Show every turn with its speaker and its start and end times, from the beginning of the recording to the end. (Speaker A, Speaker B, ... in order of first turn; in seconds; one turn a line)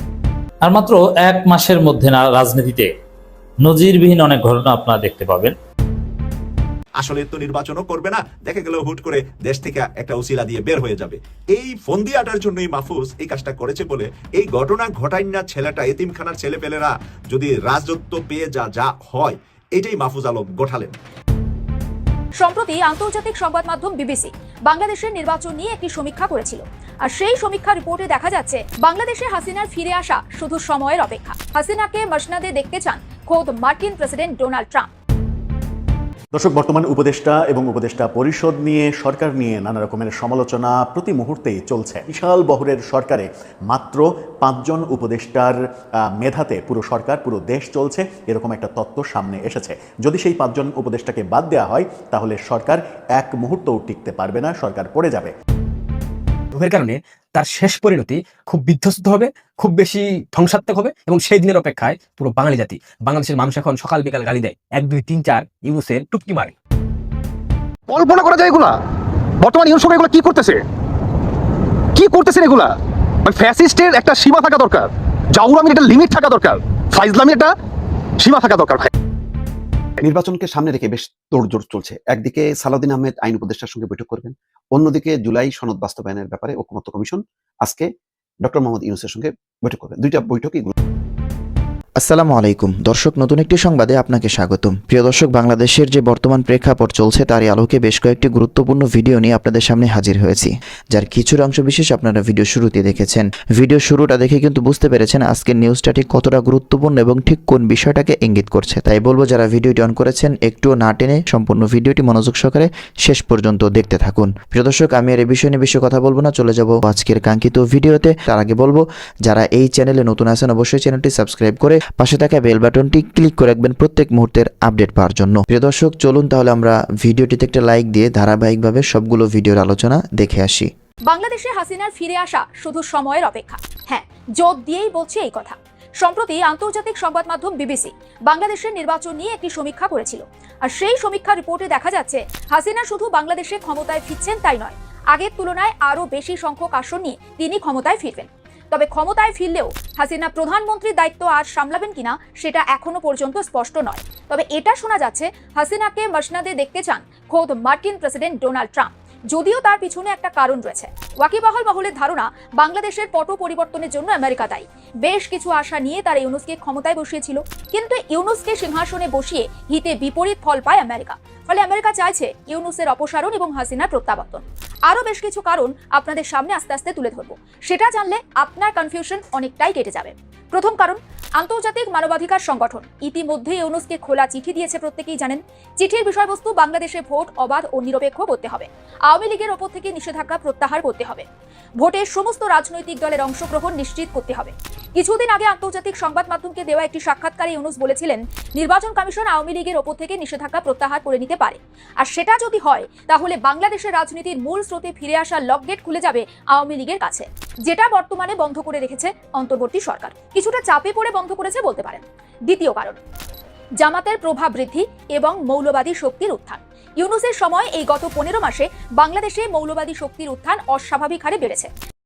Speaker A: 0.6-2.9
Speaker A: 3.6-5.5
Speaker B: 7.0-20.9
Speaker C: 22.4-34.9
Speaker D: 36.3-55.3
Speaker E: 56.5-66.5
Speaker F: 67.9-68.8
Speaker F: 69.4-70.6
Speaker F: 72.0-77.5
Speaker F: 78.2-78.9
Speaker G: 80.0-87.9
Speaker G: 88.4-90.7
Speaker H: 92.0-130.7
Speaker C: 131.1-191.3
Speaker C: 191.8-213.0
Speaker C: 213.8-221.7